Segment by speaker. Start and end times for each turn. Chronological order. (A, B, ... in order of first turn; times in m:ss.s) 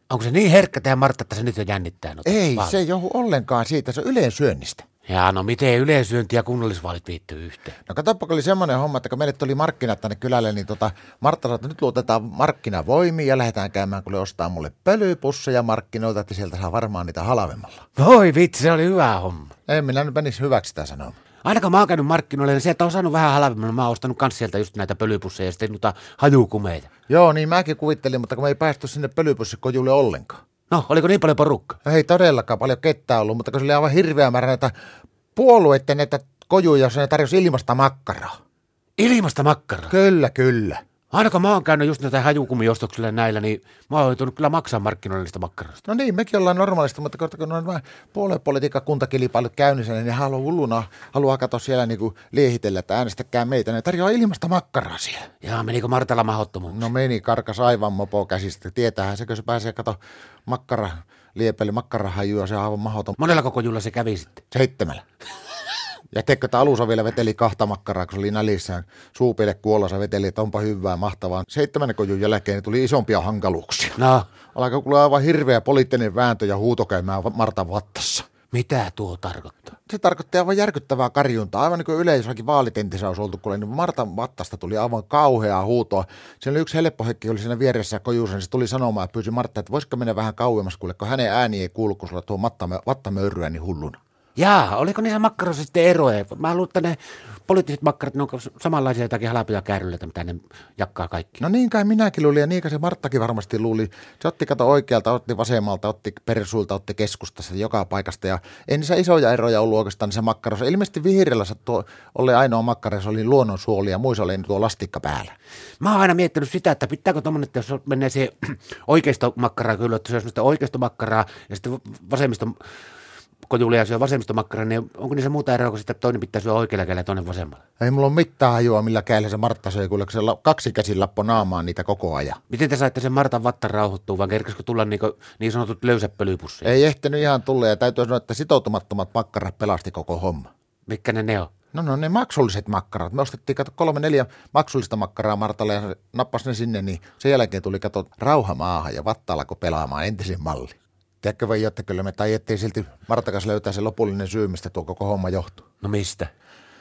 0:00.1-0:02.8 A
0:02.2-0:04.9 B
0:05.0-0:07.8 A
0:07.9-0:17.9 B
0:18.0-0:19.5 A
0:19.7-0:21.2 B
0:21.4-0:26.9 A
0:27.1-0:30.4 B
0:30.7-0:31.8 A
0:31.8-0:34.7 B
0:35.3-0:38.3 B
0:39.0-0:39.9 A
0:39.9-0:40.8 B
0:41.1-0:45.8 A
0:45.8-0:55.3 B
0:55.4-0:56.9 A
0:56.7-1:03.2 B
1:03.2-1:04.4 A
1:04.5-1:05.0 B
1:06.1-1:14.0 B
1:14.0-1:14.2 A
1:14.5-1:18.3 B
1:18.5-1:19.7 A
1:19.8-1:34.0 B
1:34.4-1:41.4 A
1:41.4-1:55.3 B
1:55.8-2:02.6 A
2:03.5-2:07.6 A
2:07.8-2:12.4 B
2:12.5-2:16.7 A
2:16.6-2:20.5 B
2:20.9-2:21.5 A
2:21.7-2:35.6 B
2:35.8-2:36.3 A